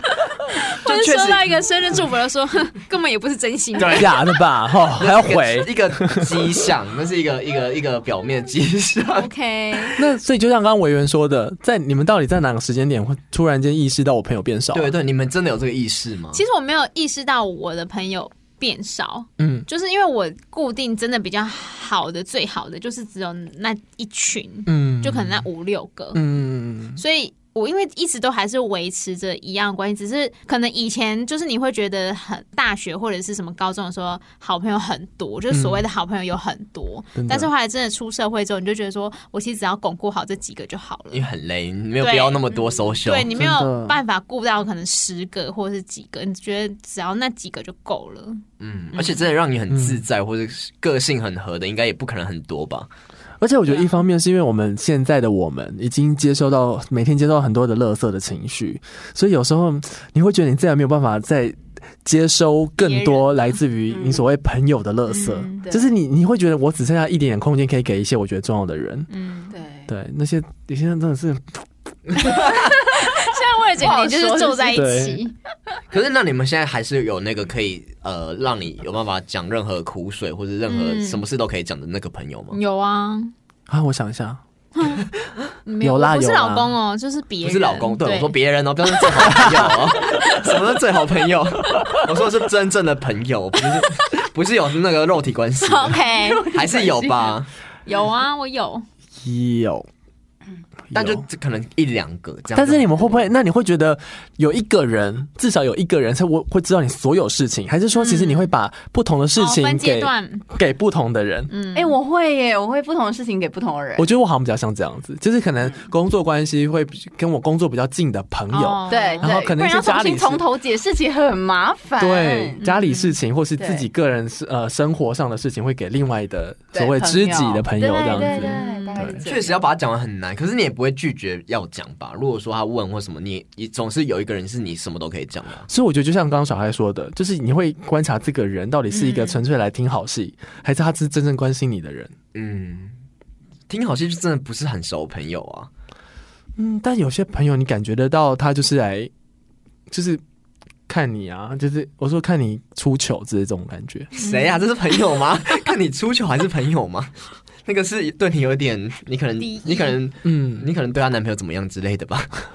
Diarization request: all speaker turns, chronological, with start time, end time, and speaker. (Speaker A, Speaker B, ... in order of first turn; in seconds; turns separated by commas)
Speaker A: 0.6-4.2, Speaker B: 0.8-1.4, Speaker B: 3.7-4.1, Speaker C: 3.9-6.3, Speaker B: 4.9-9.3, Speaker A: 9.4-9.8, Speaker C: 9.9-14.9, Speaker B: 14.7-16.4, Speaker A: 16.3-26.2, Speaker C: 19.4-19.6, Speaker C: 24.7-25.4, Speaker C: 26.1-27.0, Speaker A: 27.0-41.3, Speaker C: 35.5-35.8, Speaker C: 37.1-37.5, Speaker B: 41.1-43.4, Speaker A: 42.0-49.2, Speaker C: 43.3-44.0, Speaker B: 48.6-52.9, Speaker C: 49.7-50.0, Speaker C: 53.4-69.1, Speaker A: 62.8-63.5, Speaker D: 63.9-64.2, Speaker A: 65.1-65.6, Speaker D: 65.6-65.9, Speaker A: 69.1-69.5, Speaker D: 69.5-69.9, Speaker C: 69.9-71.7, Speaker B: 72.1-72.7, Speaker D: 72.4-74.9, Speaker A: 72.9-75.3, Speaker C: 74.7-75.2, Speaker B: 75.9-82.6, Speaker A: 80.7-81.2, Speaker A: 82.5-83.3, Speaker C: 83.7-84.4, Speaker A: 84.8-85.0, Speaker A: 85.7-88.4, Speaker C: 85.8-86.7, Speaker B: 87.4-97.5, Speaker A: 89.0-89.4, Speaker A: 95.6-96.5, Speaker D: 96.1-97.3, Speaker A: 97.8-98.8, Speaker C: 99.2-99.9, Speaker C: 100.9-101.2, Speaker B: 100.9-103.1, Speaker C: 102.5-111.5, Speaker A: 107.9-108.5, Speaker A: 109.3-110.4, Speaker A: 111.5-112.0, Speaker D: 111.7-114.0, Speaker C: 114.0-120.4, Speaker A: 118.5-119.2, Speaker D: 118.9-122.6, Speaker C: 122.0-129.2, Speaker A: 122.6-123.2, Speaker D: 123.6-123.8, Speaker D: 126.7-129.6, Speaker A: 128.1-129.1, Speaker B: 129.2-135.7, Speaker C: 135.7-142.1, Speaker A: 138.9-139.4, Speaker B: 142.3-142.9, Speaker B: 143.7-145.7, Speaker C: 146.6-149.1, Speaker C: 149.9-150.2, Speaker C: 150.9-154.1, Speaker B: 154.1-157.1, Speaker A: 154.2-154.6, Speaker B: 157.6-162.3, Speaker A: 159.4-160.0, Speaker C: 160.2-160.7